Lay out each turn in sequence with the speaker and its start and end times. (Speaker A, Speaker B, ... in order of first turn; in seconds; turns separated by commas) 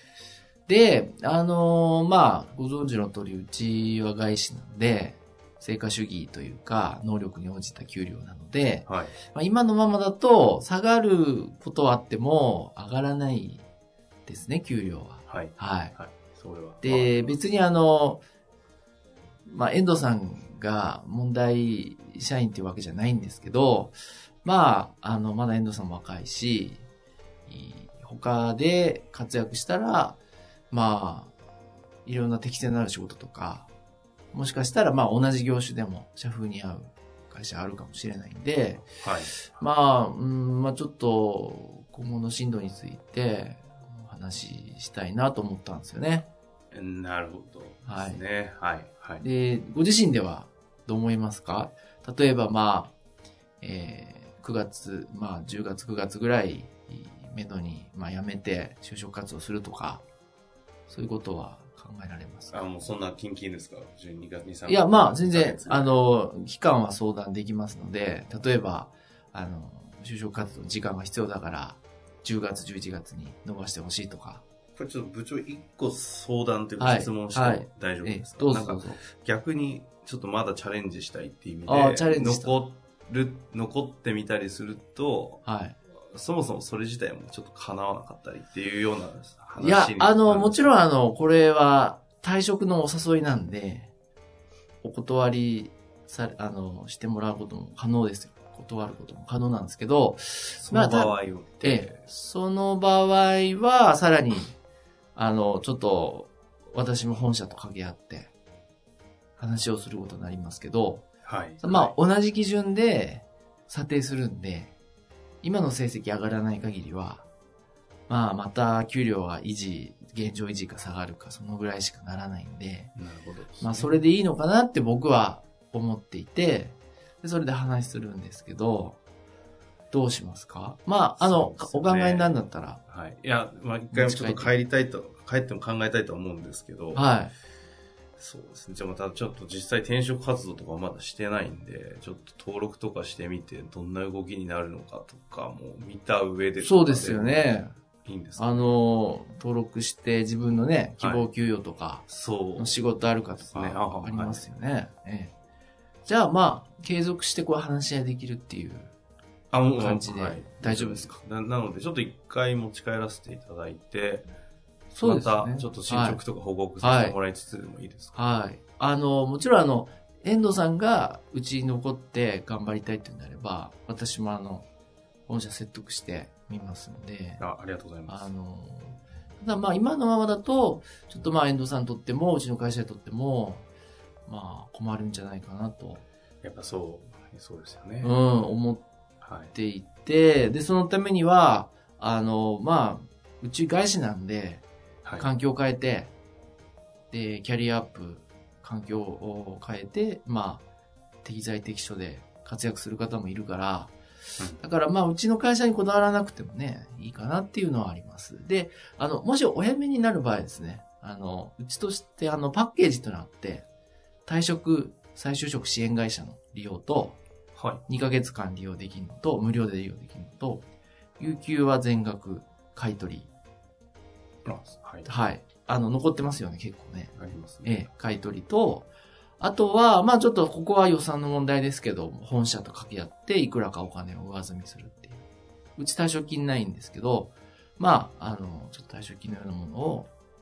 Speaker A: 0.7-13.6, Speaker B: 8.8-9.1, Speaker A: 14.3-15.9, Speaker B: 15.3-17.4, Speaker A: 16.8-18.2, Speaker A: 19.5-26.8, Speaker A: 27.5-30.2, Speaker A: 30.7-31.3, Speaker A: 32.0-33.7, Speaker A: 34.3-38.9, Speaker B: 39.0-39.4, Speaker A: 39.5-46.3, Speaker B: 46.7-49.2, Speaker A: 47.9-48.2, Speaker A: 49.2-52.9, Speaker A: 53.6-60.0, Speaker A: 60.9-62.6, Speaker B: 62.5-65.9, Speaker A: 64.7-74.4, Speaker B: 74.8-85.4, Speaker A: 76.8-79.0, Speaker A: 81.7-82.5, Speaker A: 85.4-85.8, Speaker B: 86.1-90.7, Speaker A: 89.6-93.9, Speaker A: 94.8-104.5, Speaker B: 100.6-102.0, Speaker A: 105.1-108.3, Speaker A: 109.4-111.1, Speaker B: 111.2-111.9, Speaker A: 111.6-114.7, Speaker A: 115.4-117.2, Speaker A: 118.1-122.9, Speaker B: 123.0-124.0, Speaker A: 123.6-129.0, Speaker A: 129.9-132.8, Speaker B: 131.2-132.3, Speaker B: 132.9-137.1, Speaker A: 133.9-134.5, Speaker A: 136.9-137.3, Speaker B: 138.2-147.5, Speaker A: 146.6-147.7, Speaker B: 148.0-148.7, Speaker A: 148.4-152.1, Speaker B: 151.0-151.2, Speaker B: 152.1-152.8, Speaker A: 152.6-155.3, Speaker B: 153.5-154.4, Speaker A: 156.0-158.9, Speaker B: 159.5-164.3, Speaker A: 159.8-161.2, Speaker A: 164.9-166.2, Speaker B: 165.0-168.2, Speaker A: 166.8-167.2, Speaker A: 168.1-174.7, Speaker A: 175.3-177.4, Speaker B: 177.4-178.3, Speaker A: 178.1-183.7, Speaker A: 184.3-186.0, Speaker B: 186.4-188.1, Speaker A: 188.0-188.8, Speaker B: 189.2-189.5, Speaker A: 189.5-194.6, Speaker A: 195.2-196.1, Speaker A: 197.1-200.6, Speaker A: 201.2-203.9, Speaker A: 204.6-213.6, Speaker A: 214.2-217.2, Speaker B: 217.5-217.8, Speaker A: 217.9-220.6, Speaker A: 221.2-223.3, Speaker B: 224.4-225.1, Speaker A: 225.1-228.9, Speaker B: 227.2-227.9, Speaker A: 229.4-235.2, Speaker A: 235.8-240.1